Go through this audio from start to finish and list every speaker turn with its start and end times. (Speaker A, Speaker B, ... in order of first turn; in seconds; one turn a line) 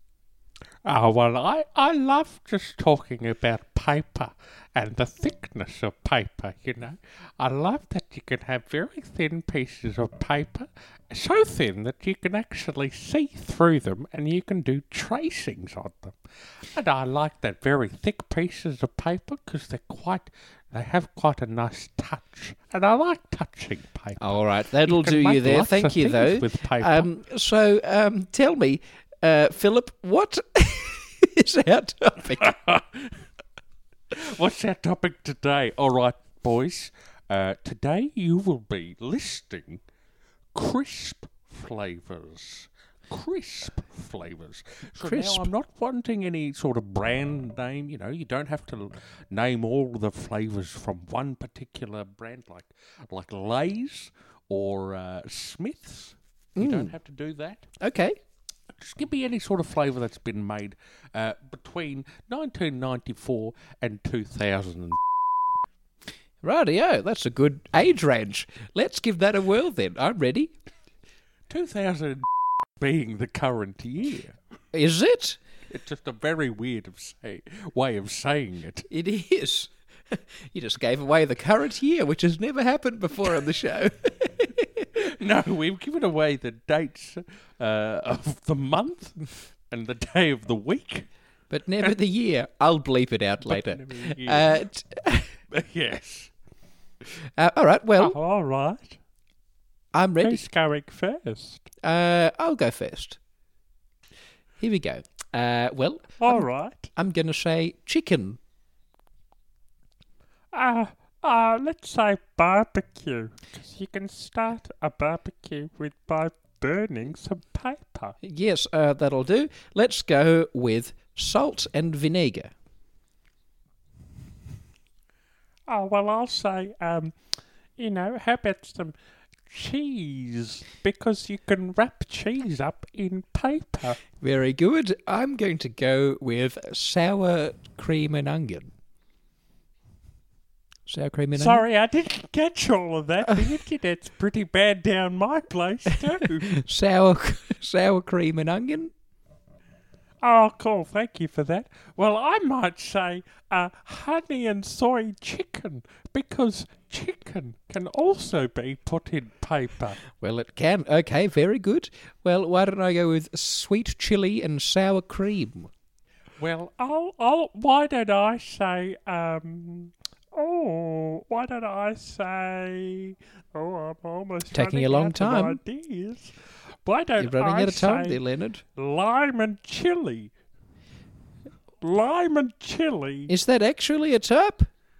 Speaker A: 0.8-27.1
Speaker B: 24.2-32.5
Speaker A: 32.3-33.2
Speaker A: 34.1-39.8
Speaker A: 40.5-57.7
Speaker B: 45.0-45.5
Speaker B: 56.6-56.9
Speaker B: 57.8-58.2
Speaker A: 58.7-65.0
Speaker B: 66.4-70.5
Speaker A: 71.5-74.4
Speaker B: 74.7-75.4
Speaker A: 75.7-78.9
Speaker B: 78.9-84.9
Speaker A: 85.0-89.2
Speaker A: 89.7-91.1
Speaker B: 91.5-95.3
Speaker A: 93.5-94.6
Speaker A: 95.5-96.3
Speaker B: 97.4-98.2
Speaker A: 98.0-99.0
Speaker B: 99.9-100.5
Speaker A: 100.2-101.6
Speaker B: 101.8-103.2
Speaker B: 104.6-108.4
Speaker A: 106.2-106.8
Speaker A: 110.5-118.1
Speaker B: 118.2-122.5
Speaker A: 125.7-127.2
Speaker A: 127.8-128.9
Speaker A: 129.5-134.0
Speaker B: 134.2-138.7
Speaker B: 140.9-141.7
Speaker A: 141.4-146.5
Speaker B: 143.2-143.6
Speaker B: 146.2-148.9
Speaker A: 150.2-160.0
Speaker B: 160.2-165.7
Speaker A: 166.4-169.9
Speaker A: 170.4-176.3
Speaker B: 174.5-175.6
Speaker A: 176.9-178.2
Speaker B: 177.2-178.6
Speaker A: 178.8-180.3
Speaker A: 181.8-183.3
Speaker B: 183.3-184.7